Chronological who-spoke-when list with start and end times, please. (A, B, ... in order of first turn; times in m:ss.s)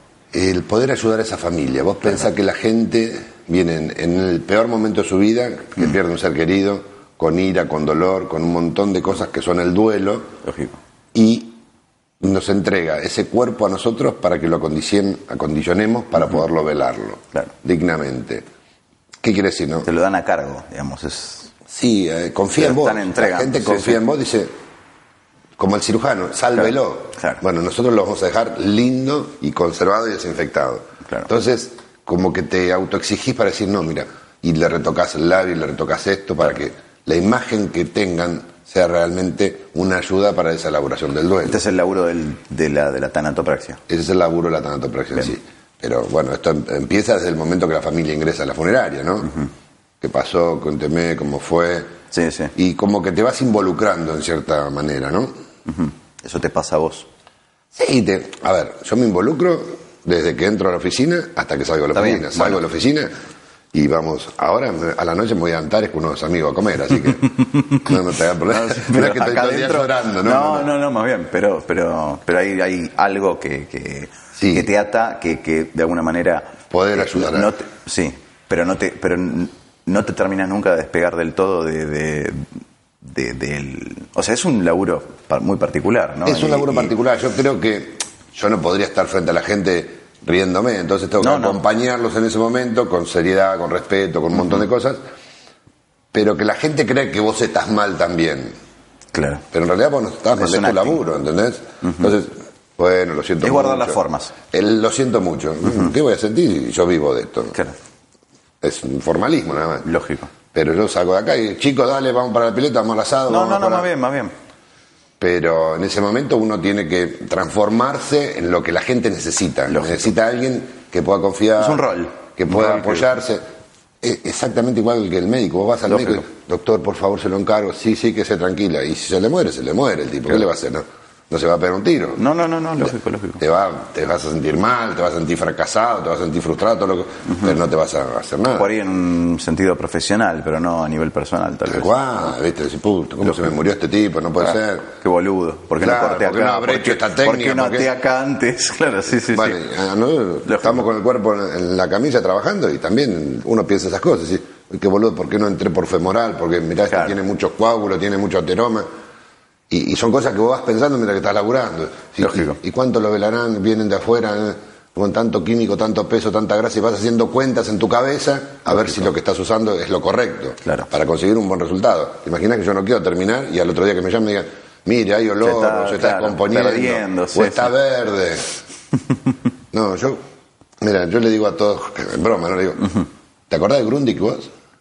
0:00.3-0:10.3 A
0:10.4-0:10.8 B
0:11.1-0:11.6 A
0:12.2-0:18.4 A
0:19.2-0:19.9 A
0:19.8-0:21.5 B
0:21.7-0:24.5 A
0:22.6-0:24.0 B
0:25.6-0:41.6 A
0:26.6-0:27.4 B
0:41.4-0:43.8 B
0:43.9-0:49.3 A
0:50.0-0:51.9 A
0:52.1-0:52.5 B
0:52.5-0:55.3 A
0:55.7-0:57.1 B
0:57.7-1:03.1 A
1:01.9-1:02.6 B
1:03.7-1:10.7 A
1:07.2-1:22.4 B
1:14.4-1:14.7 A
1:16.7-1:17.5 A
1:23.0-1:26.9 B
1:26.2-1:35.0 A
1:31.2-1:31.6 B
1:36.1-1:38.5 A
1:39.1-1:39.4 B
1:39.5-1:44.0 A
1:40.3-1:41.0 B
1:43.4-1:44.3 B
1:44.5-1:47.6 A
1:48.6-1:49.9 A
1:49.8-1:50.3 B
1:50.5-1:53.9 A
1:53.3-1:54.3 B
1:55.2-2:03.4 A
1:59.7-2:00.1 B
2:01.6-2:03.1 B
2:04.0-2:12.2 A
2:05.9-2:06.2 B
2:12.2-2:13.4 B
2:13.4-2:18.7 A
2:17.3-2:17.5 B
2:18.5-2:21.9 B
2:21.7-2:24.9 A
2:25.0-2:29.6 B
2:25.8-2:27.9 A
2:29.3-2:38.9 A
2:30.5-2:30.8 B
2:36.9-2:37.2 B
2:39.7-2:58.5 A
2:42.2-2:42.6 B
2:55.4-2:57.7 B
2:59.7-3:00.2 A
3:00.8-3:04.5 A